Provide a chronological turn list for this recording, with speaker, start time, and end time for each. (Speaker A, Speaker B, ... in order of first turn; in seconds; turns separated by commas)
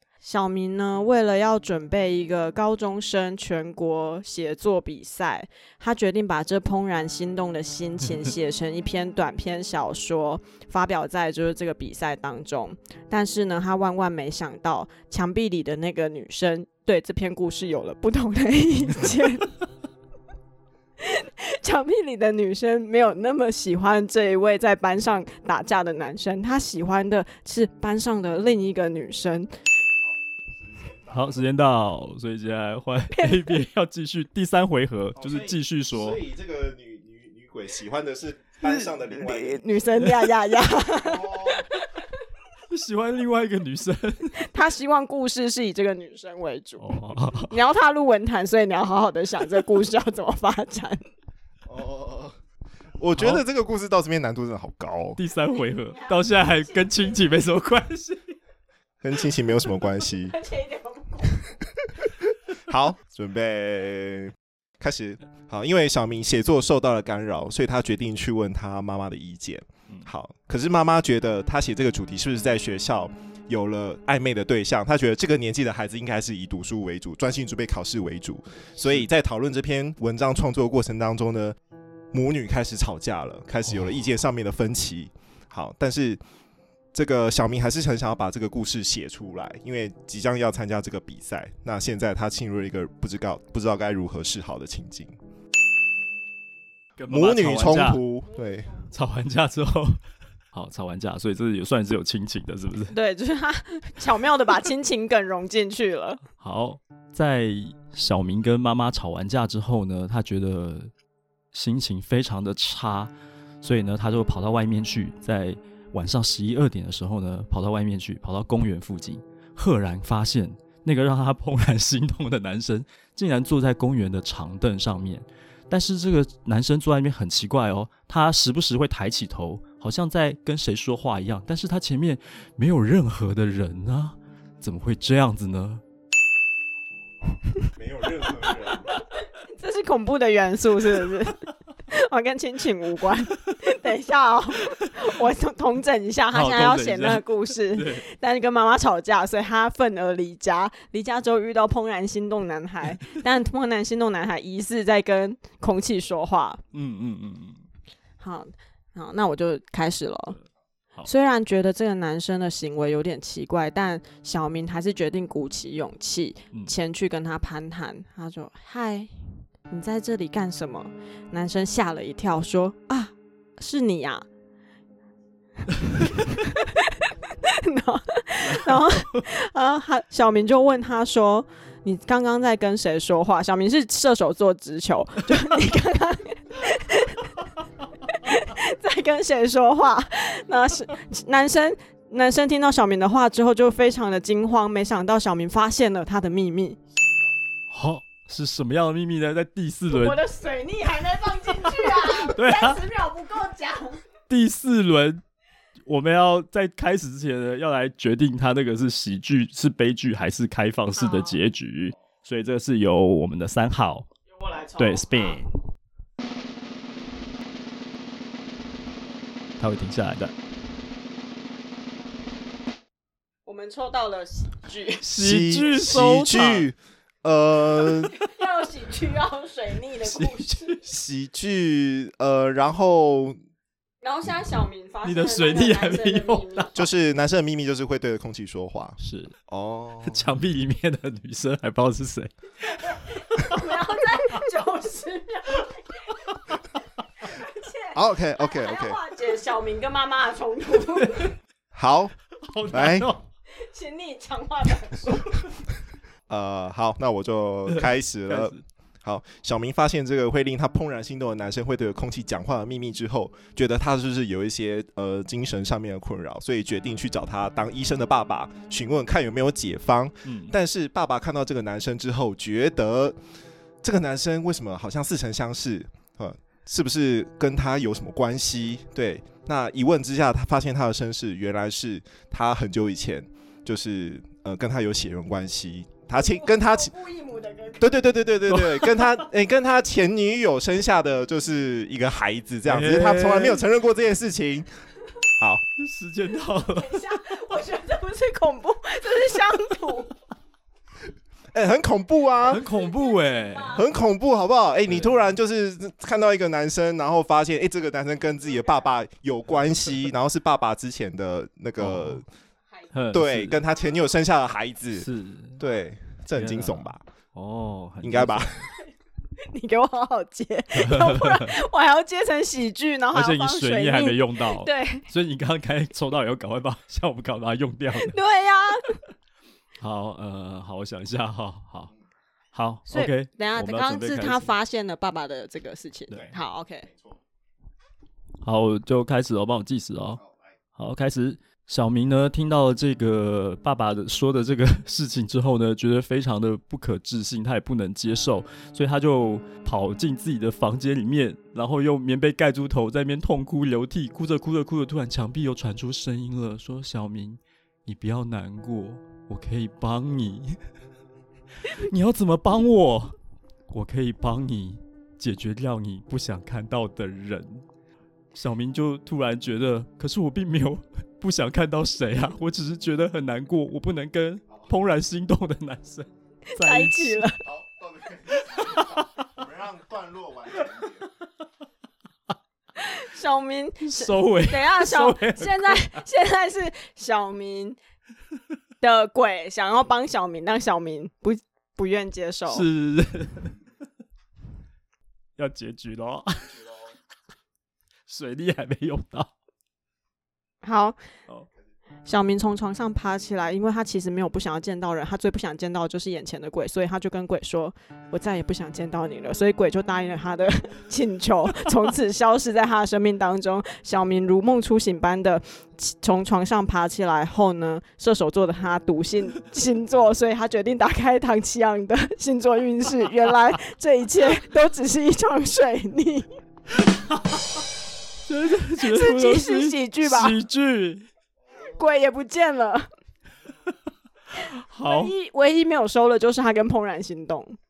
Speaker A: 0.2-19.5, Speaker A: 21.0-29.5, Speaker B: 30.6-31.5, Speaker C: 31.1-36.2, Speaker A: 33.1-33.5, Speaker B: 35.1-39.6, Speaker A: 39.1-42.0, Speaker B: 40.9-41.7, Speaker C: 42.7-44.4, Speaker A: 44.4-46.9, Speaker C: 46.8-47.5, Speaker A: 47.5-51.0, Speaker B: 51.6-52.4, Speaker B: 53.0-55.2, Speaker C: 55.2-58.4, Speaker A: 55.5-57.2, Speaker B: 59.0-60.4, Speaker A: 60.3-61.6, Speaker B: 61.8-81.5, Speaker C: 78.8-79.0, Speaker B: 82.1-86.2, Speaker B: 86.9-95.1, Speaker C: 97.0-98.0, Speaker B: 97.1-98.7, Speaker C: 98.9-100.0, Speaker C: 100.5-102.9, Speaker A: 102.9-106.2, Speaker C: 106.4-110.9, Speaker C: 111.5-135.8, Speaker B: 137.8-139.0, Speaker A: 138.6-156.6, Speaker C: 146.3-148.0, Speaker C: 156.7-157.6, Speaker A: 158.2-160.4, Speaker A: 161.0-169.1, Speaker A: 169.7-174.2, Speaker A: 175.9-187.5, Speaker C: 178.5-179.2, Speaker A: 188.1-196.8, Speaker C: 197.7-200.2, Speaker A: 199.9-204.0, Speaker C: 202.3-202.8, Speaker C: 204.3-205.2, Speaker C: 205.9-214.1, Speaker A: 211.0-211.4, Speaker A: 214.3-215.4, Speaker C: 214.8-215.5, Speaker C: 219.6-220.3, Speaker A: 223.5-225.1, Speaker C: 225.0-226.7, Speaker B: 225.1-228.1, Speaker A: 227.9-230.8, Speaker C: 230.0-230.8, Speaker B: 230.8-233.4, Speaker A: 234.0-236.8, Speaker C: 235.0-236.8, Speaker B: 236.8-240.3, Speaker C: 239.0-239.3, Speaker C: 240.0-243.4, Speaker A: 242.7-246.3, Speaker A: 247.2-251.3, Speaker B: 247.9-249.0, Speaker B: 251.7-252.1, Speaker C: 252.4-253.2, Speaker B: 252.7-253.1, Speaker A: 253.5-255.2, Speaker B: 256.3-273.1, Speaker C: 257.7-258.6, Speaker C: 270.2-270.5, Speaker B: 273.8-286.9, Speaker A: 286.1-288.0, Speaker B: 287.8-294.7, Speaker C: 288.5-289.1, Speaker C: 292.7-293.6, Speaker B: 295.4-295.6, Speaker C: 295.8-297.1, Speaker A: 296.4-300.1, Speaker B: 301.5-302.7, Speaker C: 302.4-303.8, Speaker A: 302.9-303.8, Speaker B: 303.7-312.2, Speaker C: 304.9-305.2, Speaker C: 311.8-312.2, Speaker C: 312.9-313.6, Speaker B: 313.1-315.1, Speaker C: 315.0-315.6, Speaker B: 315.6-317.0, Speaker C: 316.4-318.5, Speaker B: 318.0-318.7, Speaker A: 319.4-325.1, Speaker C: 320.7-321.6, Speaker C: 323.1-328.2, Speaker A: 327.9-329.0, Speaker C: 329.8-331.9, Speaker C: 332.5-334.5, Speaker A: 332.9-336.9, Speaker B: 336.9-337.2, Speaker C: 338.4-340.2, Speaker C: 340.8-360.6, Speaker C: 361.6-363.1, Speaker C: 363.7-367.6, Speaker C: 368.3-377.2, Speaker A: 376.5-377.4, Speaker B: 377.4-381.1, Speaker A: 382.8-387.8, Speaker C: 383.8-386.0, Speaker A: 388.8-392.6, Speaker C: 392.5-393.5, Speaker C: 395.4-396.8, Speaker C: 398.1-399.3, Speaker A: 400.6-401.0, Speaker A: 402.1-426.3, Speaker C: 428.2-431.1, Speaker A: 428.8-430.4, Speaker A: 431.6-432.9, Speaker C: 434.4-435.1, Speaker A: 434.8-437.6